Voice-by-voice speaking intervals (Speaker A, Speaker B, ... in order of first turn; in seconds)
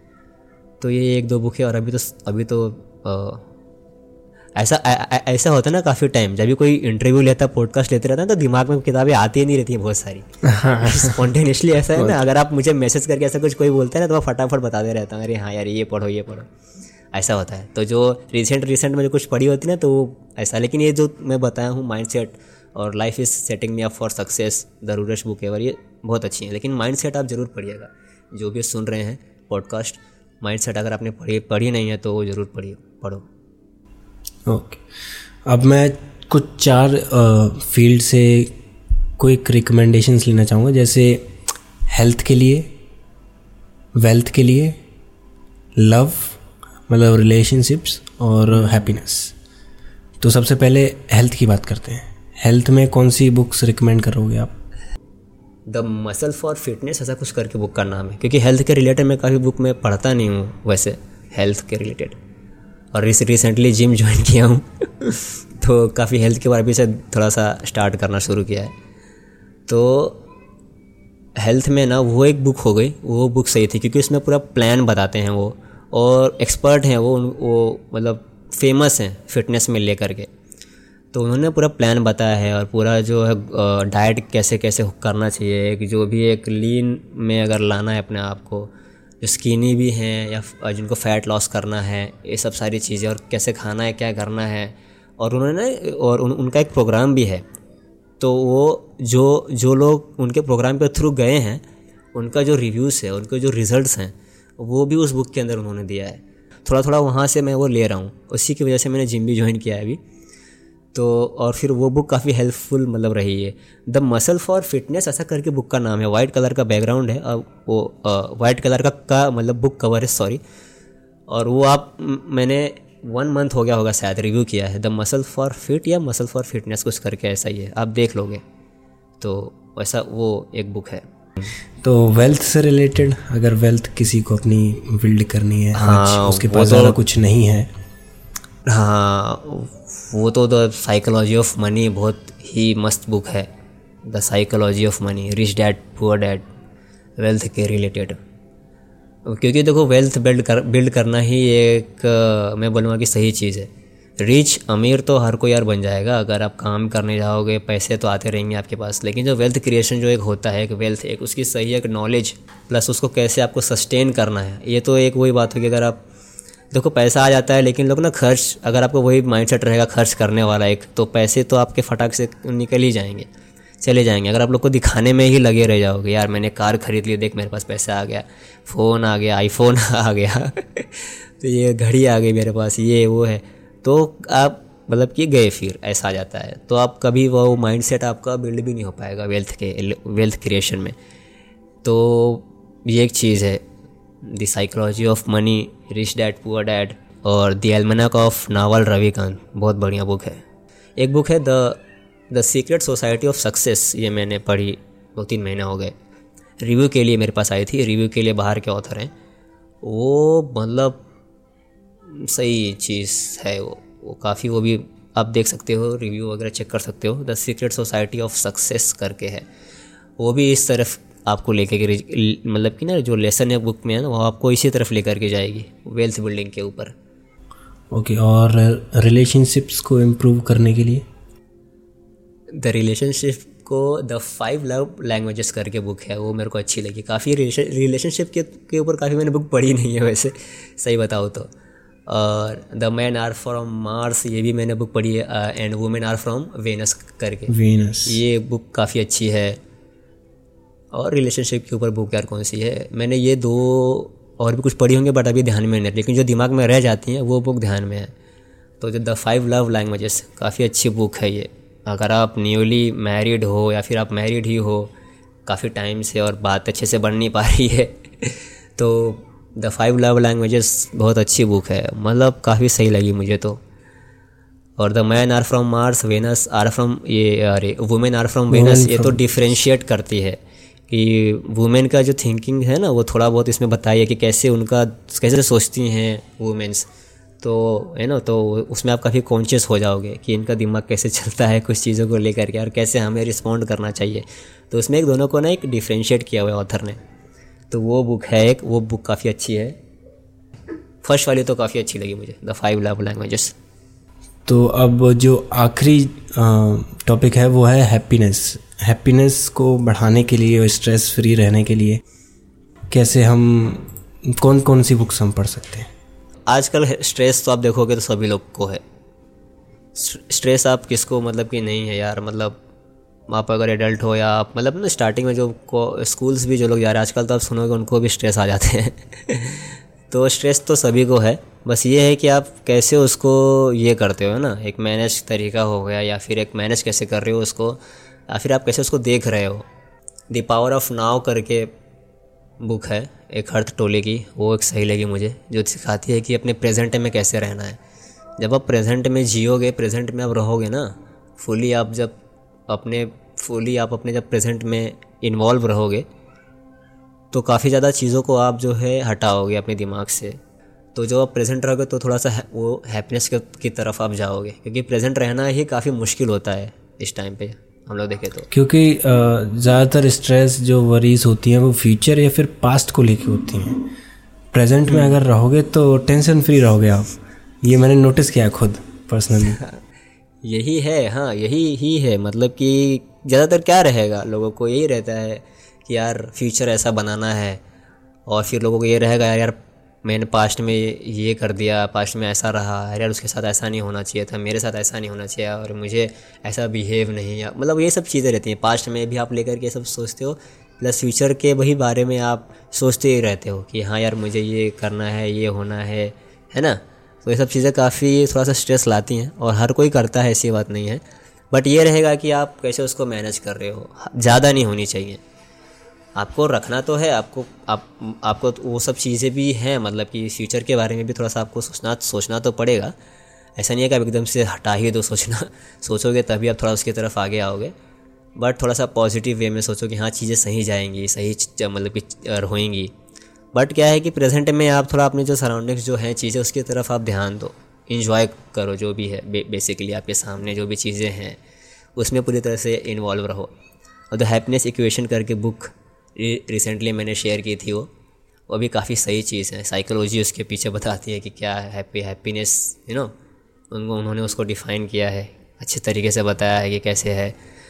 Speaker A: 0.8-3.5, 4.6-10.3, 10.8-16.5, 17.1-33.3, 55.7-62.2, 62.9-68.7, 69.7-70.2, 71.4-80.3, 81.1-88.7, 89.2-97.4, 98.2-101.6, 102.1-110.0, 110.9-120.4, 121.3-128.4, 129.2-131.0, 135.8-137.0, 138.7-143.5, 144.0-146.4, 147.2-148.2, 149.3-166.0, 166.7-173.3, 173.8-191.0, 191.8-193.6, 194.2-200.4, 201.0-205.9, 206.6-209.1, 209.8-211.0, 212.1-219.5, 220.2-226.9, 232.6-241.5, 242.1-247.5, 248.0-249.6, 250.9-258.1, 258.8-264.9, 265.5-273.6, 274.8-280.4, 280.9-286.9, 287.4-297.0, 297.7-299.8, 301.0-303.6, 316.5-318.8, 320.0-322.6, 323.3-339.7, 340.3-341.7, 342.6-347.8, 348.4-352.2, 352.7-356.1, 357.3-360.4, 360.9-368.5, 380.4-387.6, 388.3-415.2, 416.2-422.9, 423.6-427.7, 428.4-432.9, 433.5-441.4, 442.0-443.5, 444.1-447.9, 448.5-453.1, 453.7-457.4
Speaker B: 10.4-11.2, 34.5-34.8, 35.5-38.5, 39.2-41.3, 41.9-42.7, 44.0-44.8, 45.8-49.4, 50.2-54.5, 131.8-137.7, 227.9-231.1, 247.5-248.2, 278.5-279.2, 304.5-312.0, 312.9-315.9, 368.5-373.9, 374.5-379.6